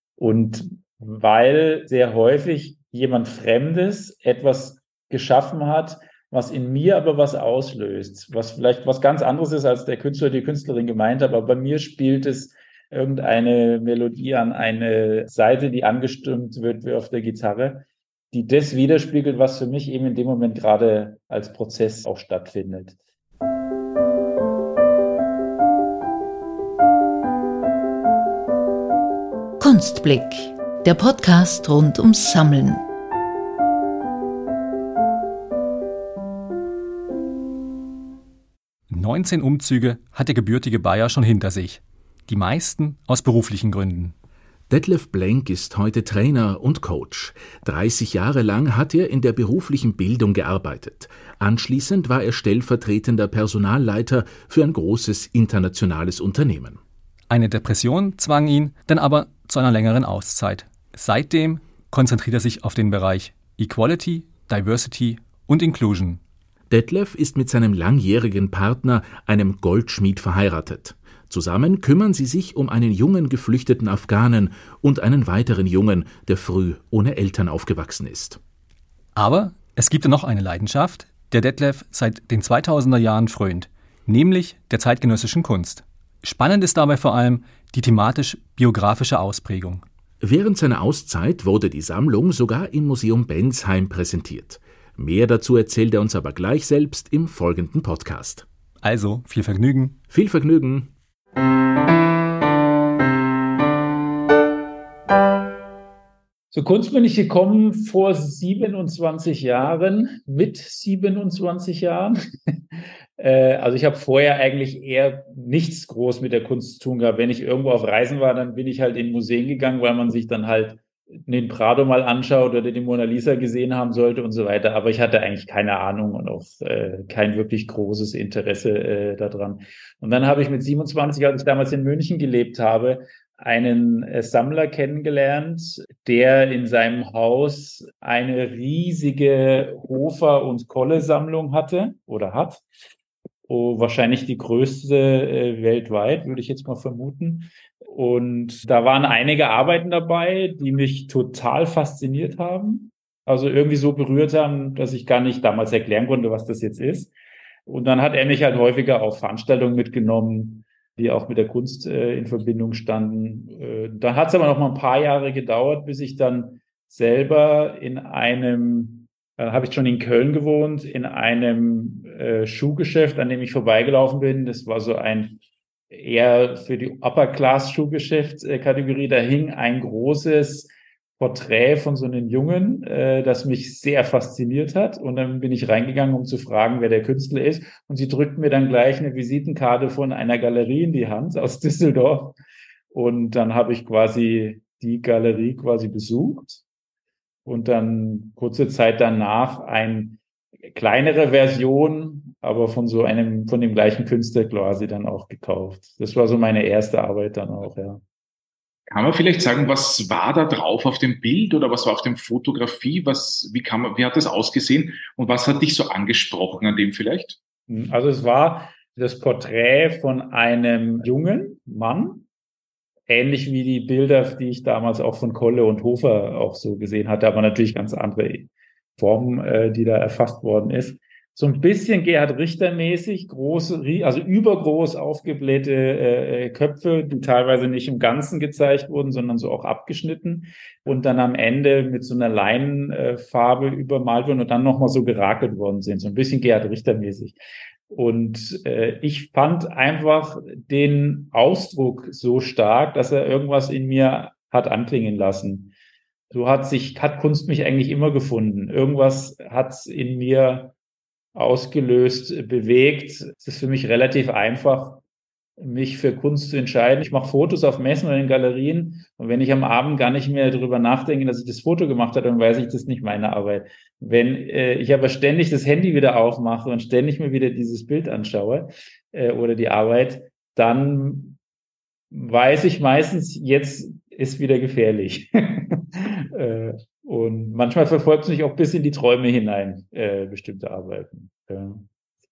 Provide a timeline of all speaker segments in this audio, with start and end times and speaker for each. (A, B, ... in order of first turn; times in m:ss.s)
0:00.2-0:23.0 A
0:29.6-0:32.8 B
0:38.9-0:44.1 C
0:44.7-0:56.8 D
0:57.3-1:06.2 C
1:06.7-1:18.4 D
1:19.2-1:29.8 C
1:30.2-1:38.5 D
1:38.8-1:40.0 C
1:40.1-1:40.9 D
1:46.5-1:52.2 A
1:53.2-2:22.6 A
2:23.5-2:37.1 A
2:37.7-3:12.4 A
3:12.9-3:16.6 A
3:17.5-3:20.2 A
3:20.7-3:28.0 A
3:28.9-3:37.4 E
3:37.7-3:42.3 A
3:43.1-4:07.4 A
4:07.9-4:15.7 A
4:16.3-4:20.7 A
4:21.4-4:25.0 A
4:25.6-4:41.4 A
4:42.1-4:51.9 A